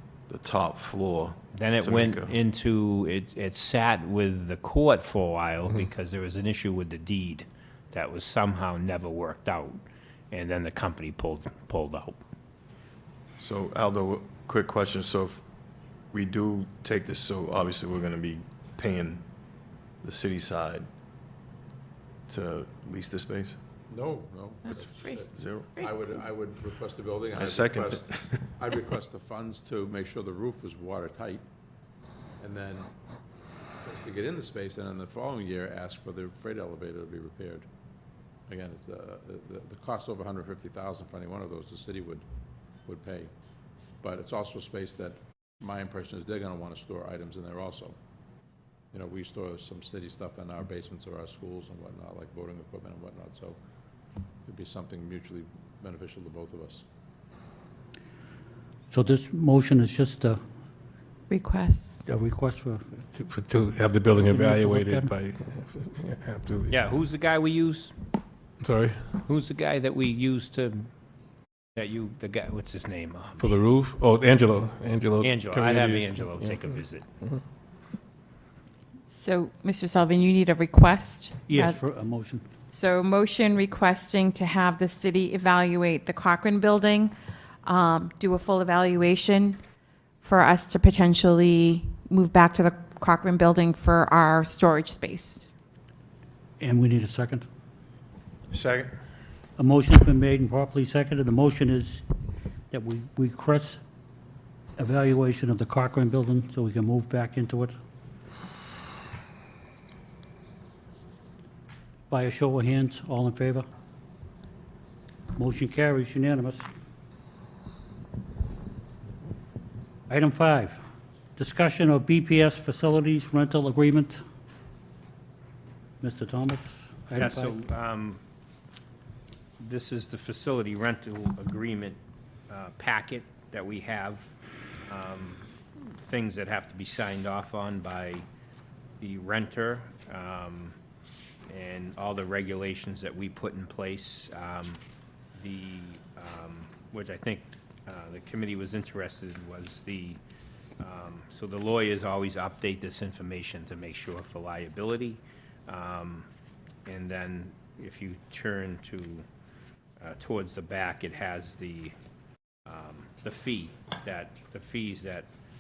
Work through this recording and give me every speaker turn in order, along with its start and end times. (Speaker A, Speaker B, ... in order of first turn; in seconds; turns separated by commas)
Speaker A: 0.3-2.4, Speaker B: 1.5-12.2, Speaker A: 13.4-15.4, Speaker A: 16.1-19.2, Speaker A: 20.0-20.9, Speaker A: 22.3-23.6, Speaker C: 23.9-31.4, Speaker A: 25.3-25.7, Speaker A: 27.4-28.4, Speaker C: 32.4-32.9, Speaker C: 33.8-37.7, Speaker C: 38.5-42.2, Speaker C: 42.9-43.3, Speaker C: 44.0-48.0, Speaker C: 48.9-53.6, Speaker C: 54.5-56.9, Speaker D: 58.9-60.4, Speaker E: 61.3-61.9, Speaker D: 62.0-62.8, Speaker F: 63.0-67.0, Speaker D: 64.3-65.1, Speaker B: 66.7-67.9, Speaker F: 68.6-69.2, Speaker B: 69.2-70.9, Speaker B: 71.8-73.5, Speaker F: 73.4-77.4, Speaker B: 75.2-77.1, Speaker E: 79.1-81.8, Speaker D: 81.5-82.5, Speaker E: 82.7-87.1, Speaker E: 87.7-89.6, Speaker E: 90.2-95.5, Speaker D: 96.6-97.5, Speaker A: 98.5-98.9, Speaker D: 99.6-102.0, Speaker D: 102.7-103.8, Speaker D: 104.8-107.8, Speaker D: 112.1-113.7, Speaker D: 115.3-116.7, Speaker D: 120.1-120.8, Speaker D: 121.4-124.2, Speaker D: 126.0-127.6, Speaker B: 127.2-128.2, Speaker B: 129.6-134.3, Speaker B: 134.9-138.3, Speaker B: 139.0-140.8, Speaker B: 141.5-144.8, Speaker B: 145.4-150.2, Speaker B: 150.8-156.3, Speaker B: 156.8-159.3, Speaker B: 160.0-161.9, Speaker B: 162.7-165.3